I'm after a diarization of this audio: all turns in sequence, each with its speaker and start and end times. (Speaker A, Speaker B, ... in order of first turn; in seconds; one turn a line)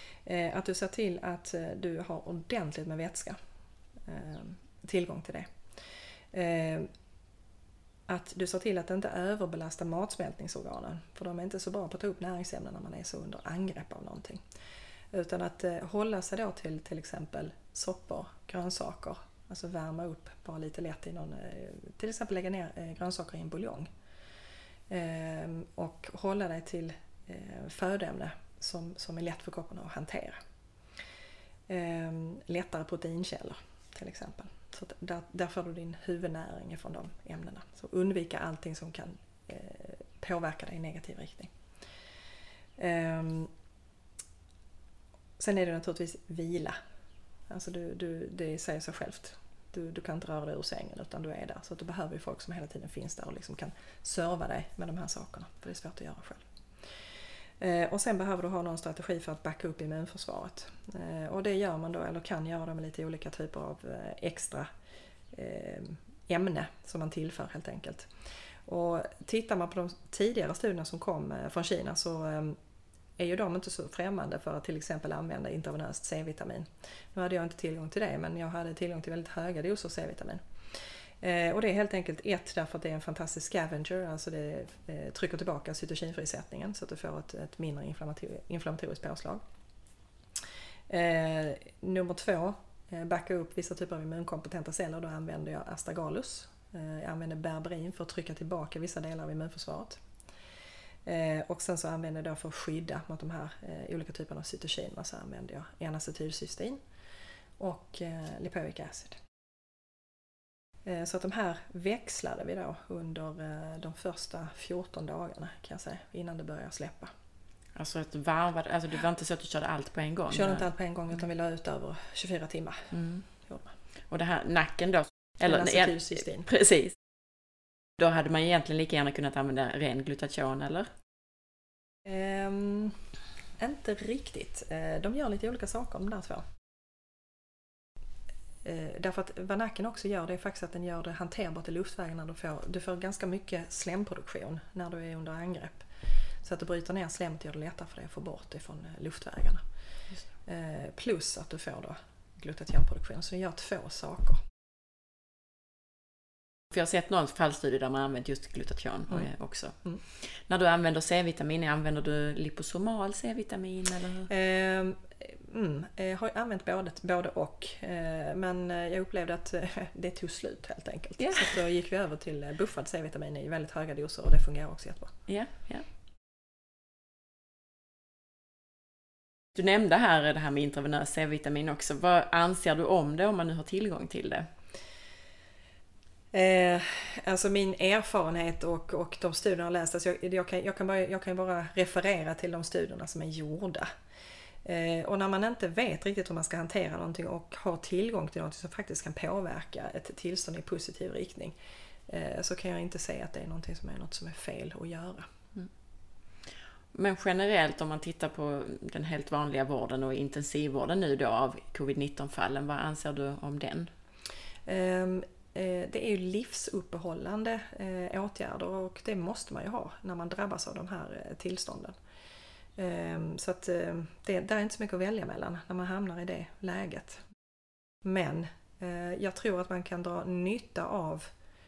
Speaker A: 0.2-3.4
Speaker A: 4.0-5.5
Speaker A: 6.3-6.9
Speaker A: 8.1-14.4
Speaker A: 15.1-23.9
Speaker A: 24.9-30.4
Speaker A: 31.7-41.5
Speaker A: 42.8-43.5
Speaker A: 45.4-46.8
Speaker A: 47.5-57.1
Speaker A: 57.6-64.7
Speaker A: 65.3-68.1
Speaker A: 68.7-72.6
Speaker A: 73.2-89.4
Speaker A: 90.9-100.0
Speaker A: 101.0-106.8
Speaker A: 107.6-109.2
Speaker A: 110.8-117.1
Speaker B: 117.8-120.7
Speaker A: 120.3-123.7
Speaker B: 122.9-123.3
Speaker B: 124.1-127.0
Speaker A: 125.4-126.5
Speaker B: 128.0-130.9
Speaker A: 132.1-133.0
Speaker A: 133.6-136.4
Speaker A: 138.6-145.9
Speaker A: 146.4-149.7
Speaker A: 150.4-154.5
Speaker B: 156.7-164.3
Speaker A: 164.3-175.2
Speaker B: 171.2-171.5
Speaker B: 175.3-175.9
Speaker B: 179.6-184.5
Speaker A: 186.3-193.9
Speaker A: 194.6-201.6
Speaker A: 202.1-205.3
Speaker B: 206.9-213.9
Speaker A: 214.7-222.0
Speaker A: 222.8-227.2
Speaker A: 228.0-231.3